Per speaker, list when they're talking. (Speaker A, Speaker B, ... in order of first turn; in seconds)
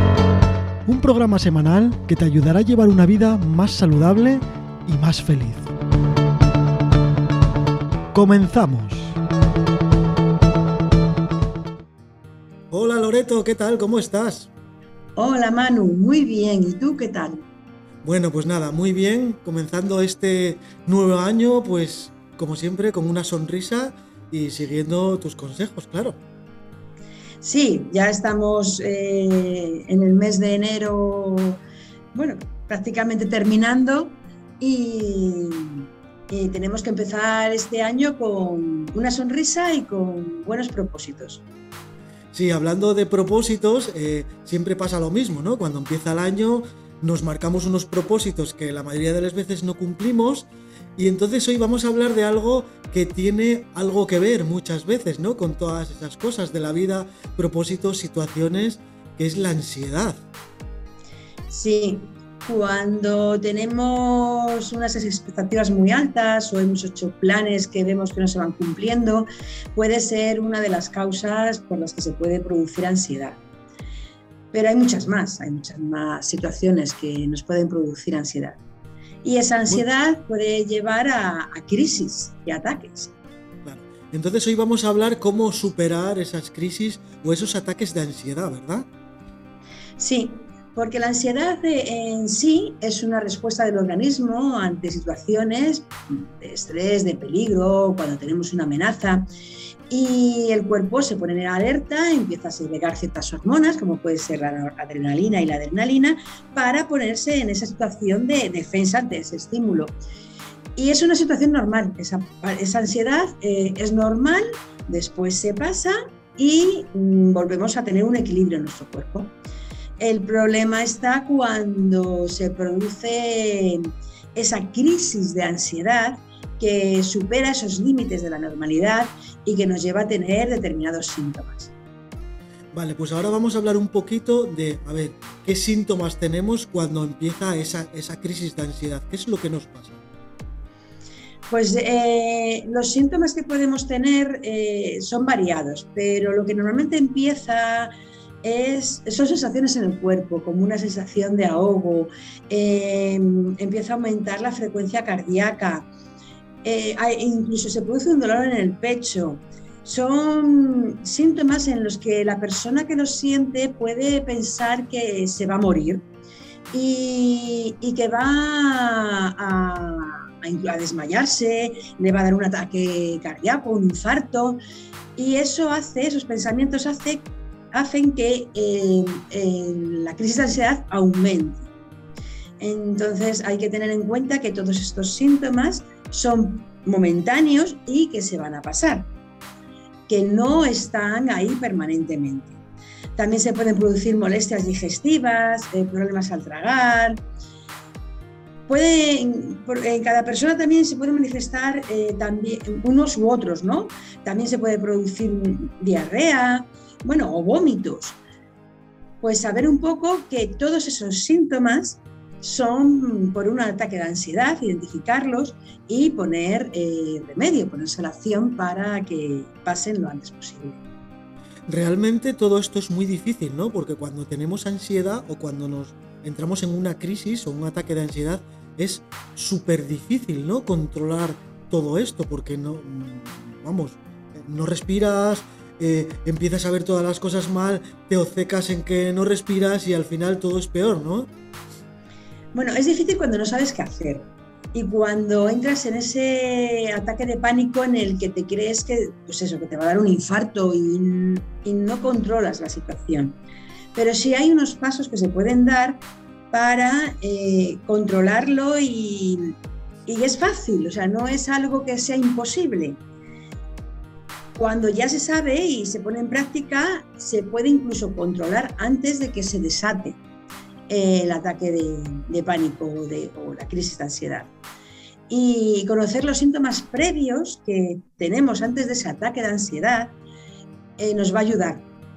Speaker A: 0.9-5.7, 8.1-9.2, 12.7-14.5, 18.0-26.2, 42.3-60.2, 83.6-88.9, 132.7-140.0, 221.7-241.3
Speaker B: 15.2-17.4, 27.4-31.6, 32.1-41.4, 61.5-73.4, 74.5-78.6, 79.2-83.1, 90.0-99.2, 99.9-110.0, 110.8-119.3, 120.0-123.8, 124.3-131.7, 141.5-147.9, 148.4-155.9, 156.6-166.1, 166.7-174.6, 175.2-181.7, 182.6-189.1, 190.1-192.6, 193.2-197.2, 198.7-208.2, 209.2-220.8, 242.5-253.4, 253.9-256.0, 256.5-259.5, 260.1-263.0, 264.6-270.2, 270.9-274.5, 275.3-280.1, 281.0-281.9